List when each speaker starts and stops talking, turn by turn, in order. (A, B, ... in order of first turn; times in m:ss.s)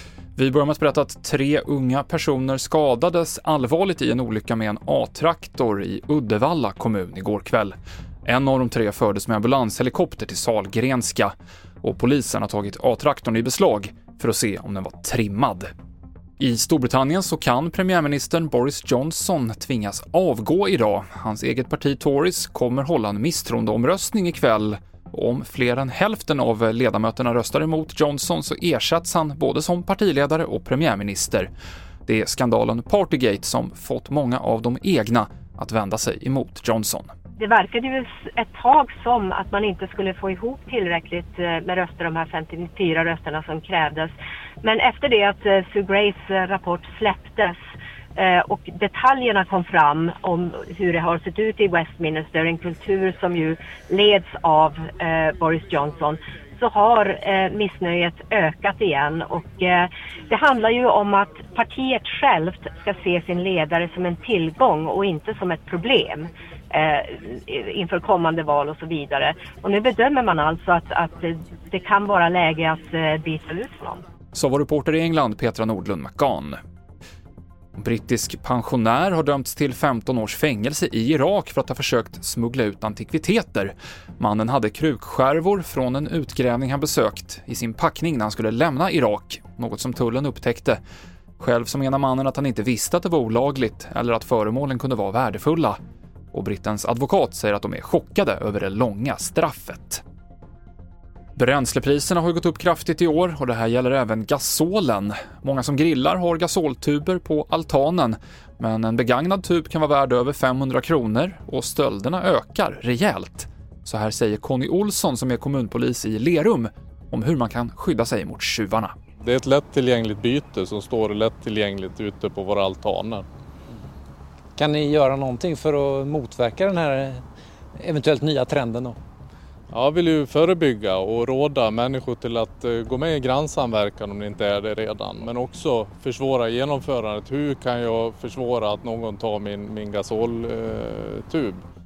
0:00.4-0:07.7 A
0:08.2-0:15.7 A
0:16.4-0:31.5 A
0:32.0-0:37.1 A
0:37.4-0:47.6 B
0:48.2-1:14.0 B
1:14.3-1:16.6 A
1:17.8-1:30.8 A
1:31.4-1:35.8 A
1:36.3-1:40.0 A
1:41.4-1:58.9 A
1:59.2-2:03.2 C
2:04.6-2:07.2 D
2:07.8-2:09.0 D
2:09.7-2:21.6 C